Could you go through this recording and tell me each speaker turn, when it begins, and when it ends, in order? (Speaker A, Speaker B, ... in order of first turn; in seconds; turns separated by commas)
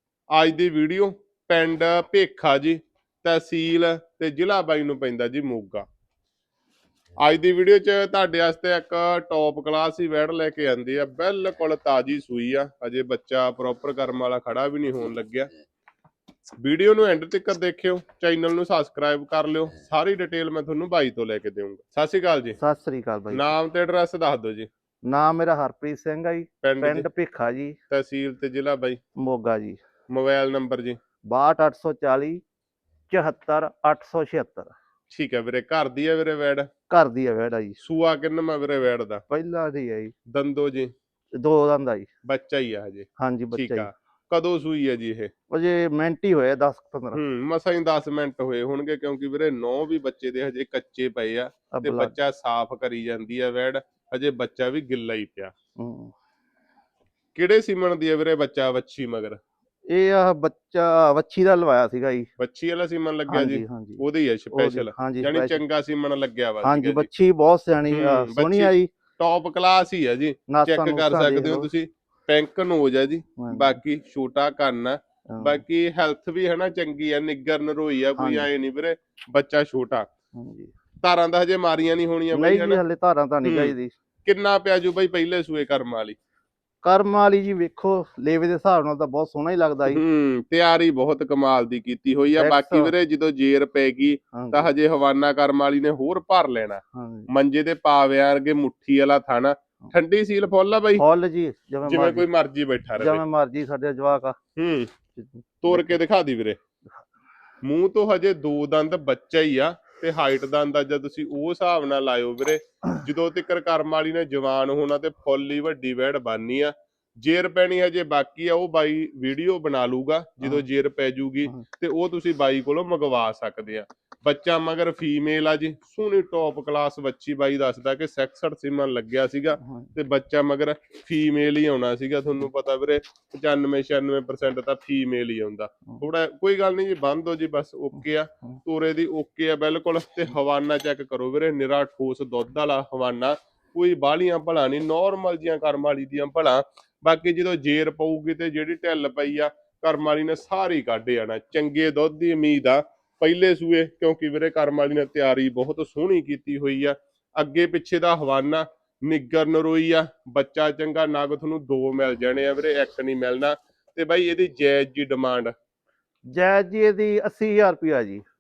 Speaker A: 0.3-5.9, Speaker A: 7.2-15.5, Speaker A: 16.6-22.6, Speaker B: 22.6-23.5, Speaker A: 23.3-24.7, Speaker B: 25.1-27.8, Speaker A: 26.6-27.1, Speaker A: 27.9-29.0, Speaker B: 29.2-29.8, Speaker A: 30.1-31.0, Speaker B: 31.3-32.4, Speaker B: 33.1-34.7, Speaker A: 35.1-36.7, Speaker B: 36.9-37.8, Speaker A: 37.8-39.2, Speaker B: 39.3-40.1, Speaker A: 40.3-40.9, Speaker B: 41.3-42.1, Speaker A: 42.3-45.3, Speaker B: 43.2-43.9, Speaker B: 45.5-47.2, Speaker A: 47.1-55.5, Speaker B: 51.7-52.1, Speaker B: 55.8-56.1, Speaker A: 57.3-59.4, Speaker B: 59.9-62.3, Speaker A: 62.4-67.1, Speaker B: 63.3-65.6, Speaker B: 66.6-68.9, Speaker A: 67.9-80.1, Speaker B: 70.5-71.7, Speaker B: 73.4-73.8, Speaker B: 75.3-75.6, Speaker B: 78.2-78.5, Speaker B: 80.3-80.7, Speaker A: 81.0-82.8, Speaker B: 82.3-83.9, Speaker A: 83.4-83.7, Speaker A: 84.2-86.2, Speaker B: 86.8-90.0, Speaker A: 89.9-101.0, Speaker B: 92.4-92.9, Speaker B: 94.3-94.7, Speaker B: 96.9-97.3, Speaker B: 101.0-102.3, Speaker A: 101.8-103.2, Speaker B: 103.0-104.4, Speaker A: 104.6-104.9, Speaker B: 105.1-106.0, Speaker A: 105.6-106.6, Speaker A: 107.6-165.5, Speaker B: 129.6-129.9, Speaker B: 166.3-168.2